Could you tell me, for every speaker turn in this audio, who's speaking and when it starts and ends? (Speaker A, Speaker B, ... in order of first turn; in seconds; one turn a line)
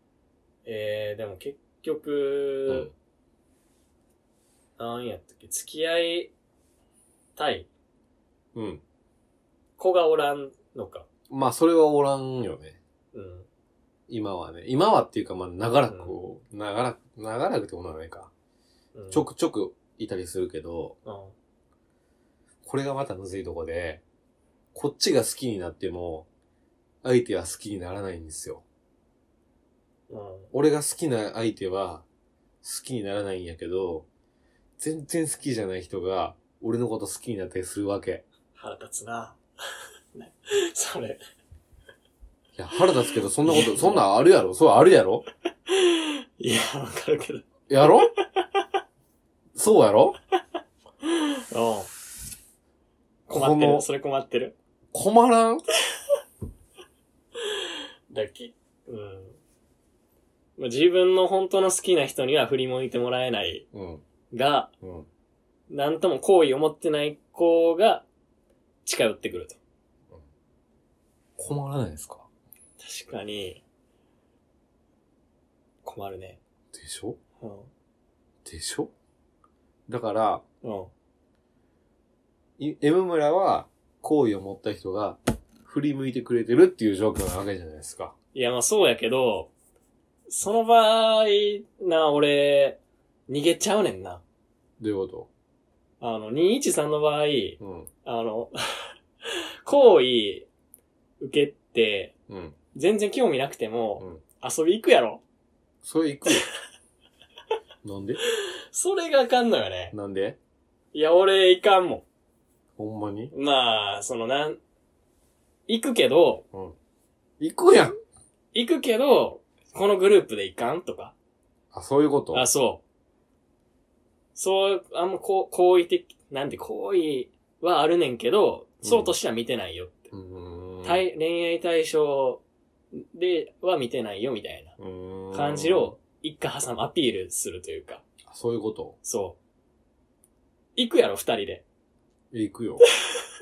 Speaker A: 0.6-2.9
Speaker A: 4.8-6.3
Speaker A: 7.3-7.7
Speaker B: 8.5-8.8
Speaker A: 9.8-11.1
Speaker B: 11.3-12.8
Speaker A: 13.1-13.5
Speaker B: 14.1-18.3
Speaker A: 15.9-16.1
Speaker A: 18.9-19.2
Speaker B: 19.1-20.9
Speaker A: 21.0-21.3
Speaker B: 22.6-24.0
Speaker B: 24.7-26.3
Speaker B: 27.0-28.6
Speaker A: 30.1-30.5
Speaker B: 30.5-32.0
Speaker B: 32.6-34.0
Speaker B: 34.8-38.2
Speaker A: 38.5-39.4
Speaker A: 40.1-41.2
Speaker B: 42.5-45.2
Speaker A: 43.4-44.0
Speaker A: 45.7-48.6
Speaker B: 47.7-48.1
Speaker B: 49.5-50.2
Speaker A: 51.0-51.9
Speaker A: 53.3-54.5
Speaker B: 53.3-53.9
Speaker B: 54.9-55.6
Speaker A: 57.4-59.4
Speaker A: 60.6-63.6
Speaker B: 63.7-64.0
Speaker A: 64.3-64.7
Speaker B: 64.8-65.1
Speaker A: 65.7-68.0
Speaker A: 68.8-69.6
Speaker B: 71.4-72.3
Speaker A: 72.8-73.6
Speaker A: 75.8-76.4
Speaker B: 76.7-77.2
Speaker A: 77.4-77.7
Speaker B: 78.4-78.9
Speaker B: 79.9-80.4
Speaker A: 80.6-80.9
Speaker B: 82.6-88.1
Speaker A: 88.3-89.5
Speaker A: 90.3-94.2
Speaker B: 94.8-95.3
Speaker A: 96.0-100.5
Speaker B: 97.6-97.9
Speaker A: 101.2-102.1
Speaker B: 102.3-102.5
Speaker A: 102.7-105.2
Speaker B: 105.8-106.5
Speaker B: 107.8-108.2
Speaker A: 108.2-109.9
Speaker B: 109.9-110.4
Speaker A: 110.9-112.0
Speaker B: 112.8-113.3
Speaker A: 113.3-114.6
Speaker A: 115.7-116.5
Speaker B: 117.4-117.9
Speaker A: 118.5-121.1
Speaker B: 121.7-122.5
Speaker A: 122.3-122.8
Speaker A: 124.3-130.1
Speaker B: 128.8-129.1
Speaker B: 130.1-131.0
Speaker A: 130.8-132.4
Speaker A: 132.9-134.8
Speaker B: 134.8-135.9
Speaker A: 135.3-138.0
Speaker B: 138.3-138.9
Speaker A: 139.0-139.4
Speaker A: 140.8-141.6
Speaker B: 142.3-142.8